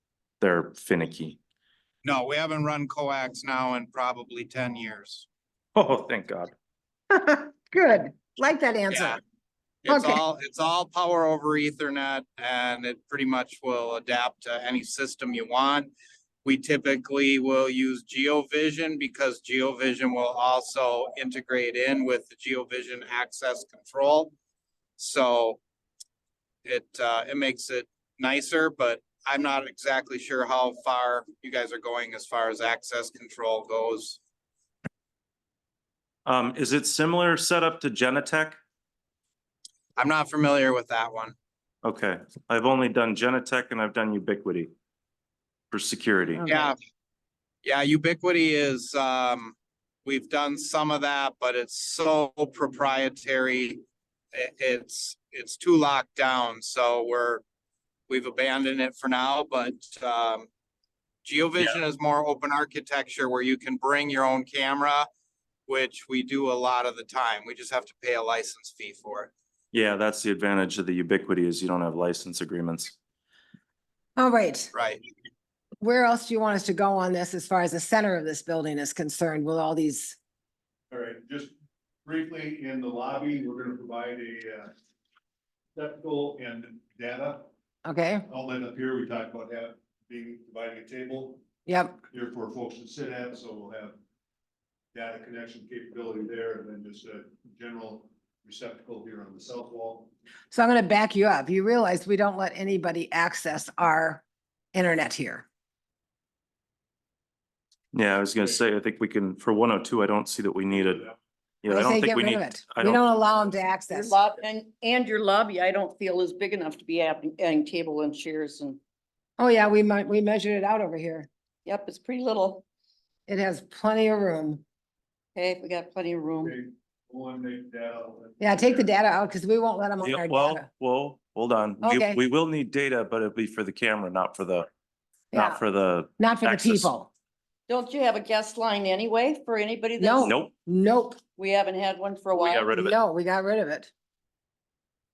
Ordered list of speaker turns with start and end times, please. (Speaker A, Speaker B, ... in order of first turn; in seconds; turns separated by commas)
Speaker A: 0.4-1.4, Speaker B: 2.0-5.2, Speaker A: 5.7-6.5, Speaker C: 7.1-9.2, Speaker B: 8.9-9.2, Speaker B: 9.8-15.9, Speaker C: 9.9-10.2, Speaker B: 16.4-24.3, Speaker B: 25.0-25.6, Speaker B: 26.6-34.2, Speaker A: 36.2-38.6, Speaker B: 40.0-41.3, Speaker A: 41.8-44.7, Speaker A: 45.7-46.4, Speaker D: 46.4-46.7, Speaker B: 46.5-46.8, Speaker B: 47.6-53.8, Speaker B: 54.3-57.4, Speaker B: 58.1-60.5, Speaker B: 61.2-65.1, Speaker B: 65.7-69.3, Speaker A: 69.7-72.9, Speaker C: 74.2-74.7, Speaker B: 74.7-75.0, Speaker C: 75.8-80.2, Speaker E: 80.9-81.5, Speaker E: 82.0-84.7, Speaker E: 85.7-87.5, Speaker C: 87.8-88.2, Speaker E: 88.3-91.4, Speaker C: 91.7-92.0, Speaker E: 92.1-94.0, Speaker E: 94.9-100.1, Speaker C: 100.5-105.5, Speaker A: 107.9-111.0, Speaker E: 110.7-111.1, Speaker A: 111.6-113.0, Speaker C: 111.7-114.2, Speaker D: 113.9-118.8, Speaker C: 119.4-121.3, Speaker D: 121.7-122.6, Speaker C: 123.3-124.6, Speaker D: 125.3-126.5, Speaker E: 126.4-128.9, Speaker C: 128.4-130.7, Speaker A: 130.0-134.7, Speaker C: 131.8-132.2, Speaker C: 135.3-135.6, Speaker A: 135.3-136.9, Speaker C: 136.2-137.1, Speaker D: 137.7-140.3, Speaker C: 140.0-141.2, Speaker A: 140.2-140.5, Speaker D: 141.4-142.8, Speaker A: 142.3-142.9, Speaker C: 142.7-143.9